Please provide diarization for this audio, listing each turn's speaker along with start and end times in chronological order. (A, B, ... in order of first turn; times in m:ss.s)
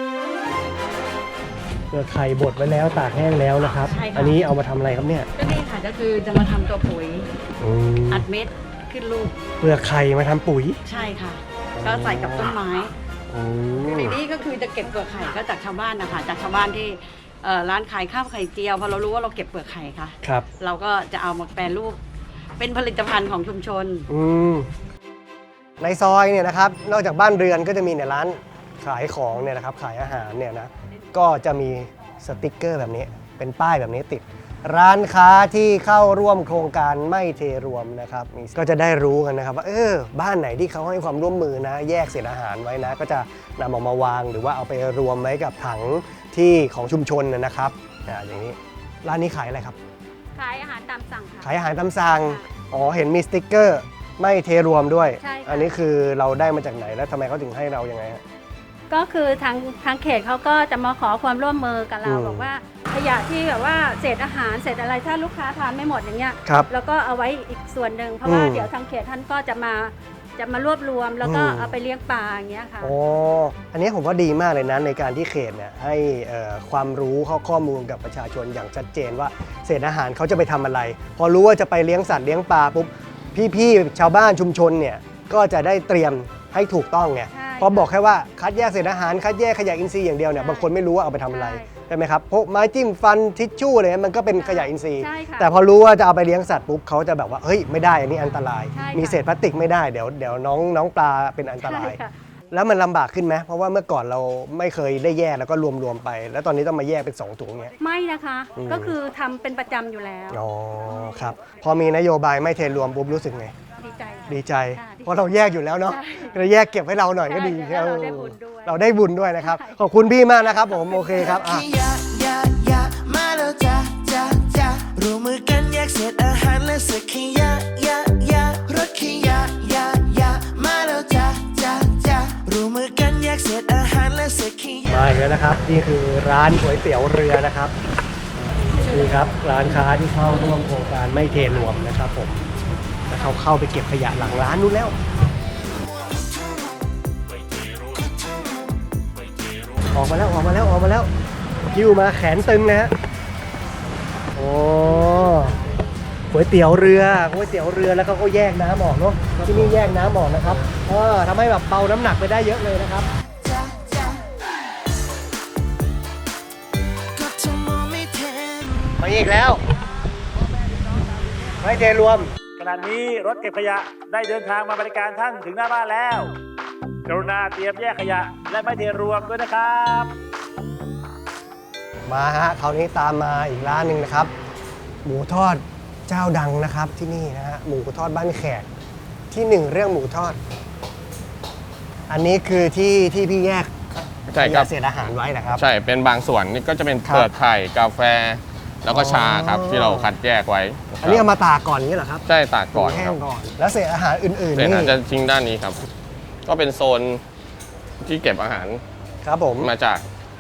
0:01.9-0:05.3 A
0:03.8-0:04.4 B
0:05.4-0:07.3 B
0:07.6-0:08.3 A
0:08.1-0:09.4 B
0:09.6-0:10.8 A
0:10.8-0:12.9 B
0:11.8-0:12.6 A
0:13.3-0:14.2 A
0:13.8-0:22.0 B
0:22.6-0:24.1 B
0:24.1-0:24.7 A
0:25.8-0:49.8 A
0:50.4-0:52.4 C
0:51.4-0:58.2 A
0:55.2-0:55.7 C
0:58.9-1:13.0 C
1:02.0-1:02.5 A
1:08.2-1:08.7 A
1:11.2-1:11.8 A
1:12.8-1:42.0 A
1:27.3-1:27.9 C
1:30.4-1:30.7 C
1:31.3-1:31.7 C
1:34.4-1:35.5 C
1:38.7-1:39.2 C
1:41.6-1:42.1 C
1:42.5-1:47.7 A
1:47.8-1:50.4 C
1:48.6-1:48.9 A
1:50.3-1:53.5 A
1:53.8-1:55.3 C
1:54.3-2:01.6 A
1:55.8-1:56.4 C
1:57.2-1:58.8 C
1:59.4-1:59.8 C
2:01.2-2:15.1 D
2:14.9-2:17.7 A
2:18.8-2:22.4 A
2:23.1-2:25.0 A
2:25.9-2:26.8 D
2:27.7-2:28.7 D
2:29.9-2:31.1 A
2:31.6-2:32.9 A
2:34.4-2:35.6 A
2:36.3-2:43.1 A
2:43.4-2:44.3 D
2:47.2-2:49.0 D
2:49.0-2:49.6 A
2:51.6-2:52.3 A
2:52.6-2:56.3 E
2:57.1-3:00.1 E
3:02.1-3:04.3 A
3:05.0-3:08.7 A
3:09.3-3:10.4 A
3:12.1-3:13.7 A
3:14.3-3:14.7 F
3:14.4-3:15.6 A
3:15.6-3:21.2 F
3:18.9-3:20.1 A
3:21.0-3:25.0 A
3:22.3-3:23.2 F
3:24.6-3:25.8 F
3:26.5-3:27.2 F
3:28.0-3:28.8 F
3:29.2-3:29.7 A
3:29.6-3:30.0 F